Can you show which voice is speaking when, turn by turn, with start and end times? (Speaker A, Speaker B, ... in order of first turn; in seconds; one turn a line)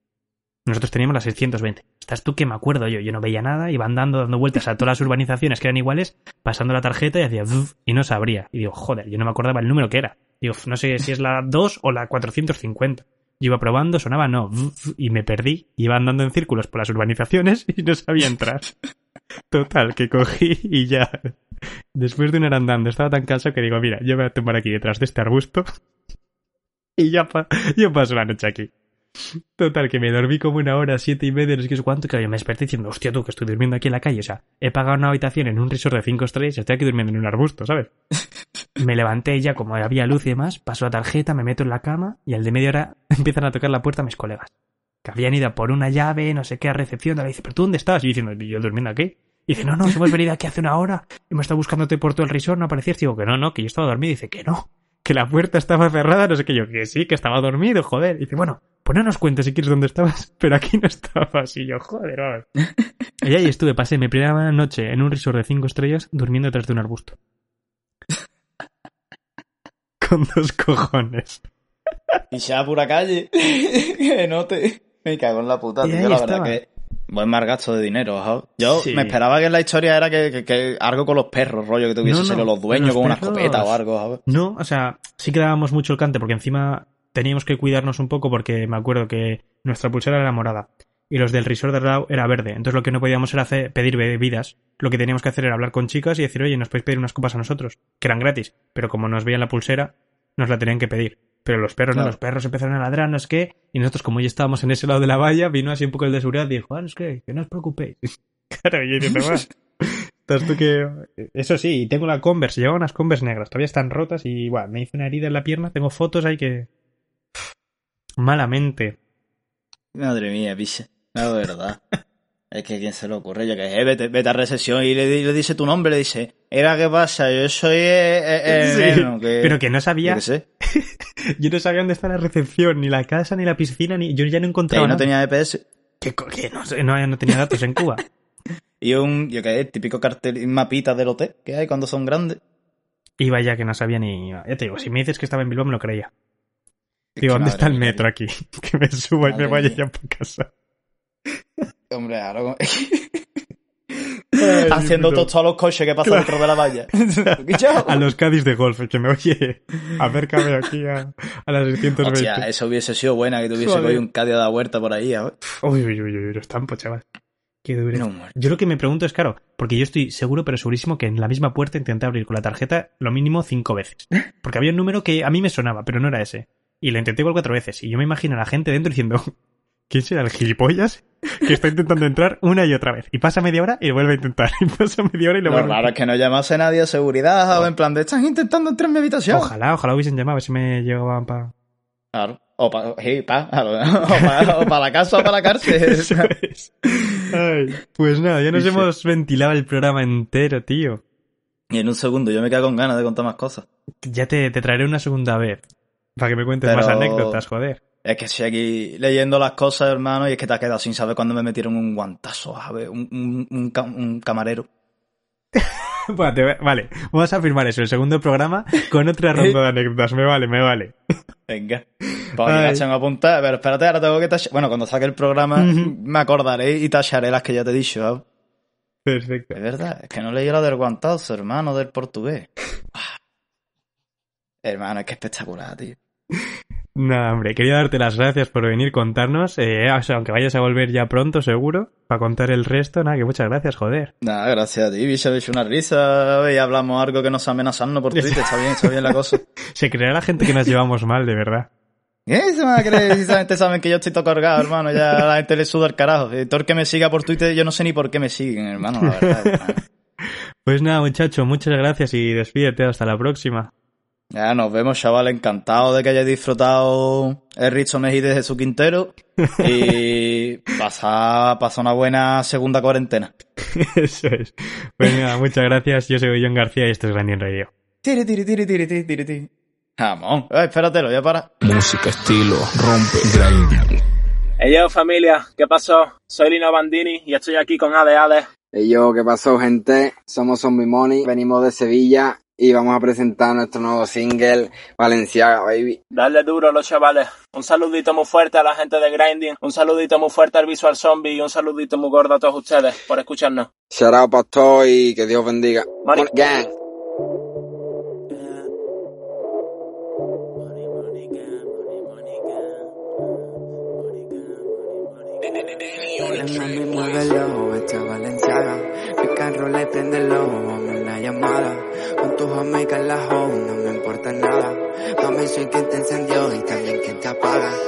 Speaker A: 0.7-18.7
Speaker A: 19.5-21.4
Speaker A: 21.9-25.7
Speaker A: 27.0-28.7
Speaker A: 29.6-37.9
Speaker A: 38.8-44.5
Speaker A: 45.0-62.5
Speaker A: 63.2-67.2
Speaker A: 70.0-71.5
Speaker B: 72.3-84.2
Speaker A: 75.8-76.6
Speaker A: 78.6-79.2
Speaker A: 82.0-116.7
Speaker B: 109.0-109.4
Speaker A: 118.2-119.0
Speaker B: 120.0-121.8
Speaker B: 122.5-130.4
Speaker A: 128.5-135.1
Speaker B: 134.7-135.6
Speaker A: 136.0-138.0
Speaker B: 138.8-142.4
Speaker A: 143.2-146.1
Speaker B: 147.2-148.0
Speaker A: 147.2-150.5
Speaker B: 149.2-149.8
Speaker B: 151.9-153.2
Speaker B: 154.3-158.0
Speaker A: 154.4-155.3
Speaker A: 156.0-156.7
Speaker A: 157.3-162.5
Speaker B: 162.0-165.3
Speaker A: 163.6-164.0
Speaker A: 165.5-167.0
Speaker A: 167.7-179.3
Speaker B: 167.9-168.3
Speaker A: 179.9-185.9
Speaker B: 185.4-189.5
Speaker A: 189.3-191.5
Speaker B: 192.1-196.3
Speaker A: 194.2-194.7
Speaker A: 195.6-201.0
Speaker B: 198.5-198.9
Speaker B: 201.7-203.7
Speaker A: 204.0-205.6
Speaker A: 206.2-207.8
Speaker B: 206.6-207.4
Speaker B: 208.0-214.7
Speaker A: 215.6-220.9
Speaker B: 221.5-221.8
Speaker B: 222.4-228.2
Speaker A: 222.4-222.8
Speaker A: 225.6-225.9
Speaker A: 229.1-229.6
Speaker B: 229.5-233.1
Speaker B: 234.6-236.0
Speaker A: 237.0-244.1
Speaker B: 244.2-249.4
Speaker A: 248.1-249.2
Speaker A: 249.7-251.7
Speaker B: 252.3-259.8
Speaker A: 252.8-253.3
Speaker A: 259.0-259.6
Speaker A: 260.7-263.7
Speaker B: 264.3-273.3
Speaker A: 273.7-277.7
Speaker B: 278.0-281.5
Speaker C: 281.6-284.0
Speaker D: 284.6-288.5
Speaker E: 288.7-296.0
Speaker D: 296.1-303.7
Speaker E: 303.9-306.7
Speaker D: 306.0-306.3
Speaker F: 316.4-327.8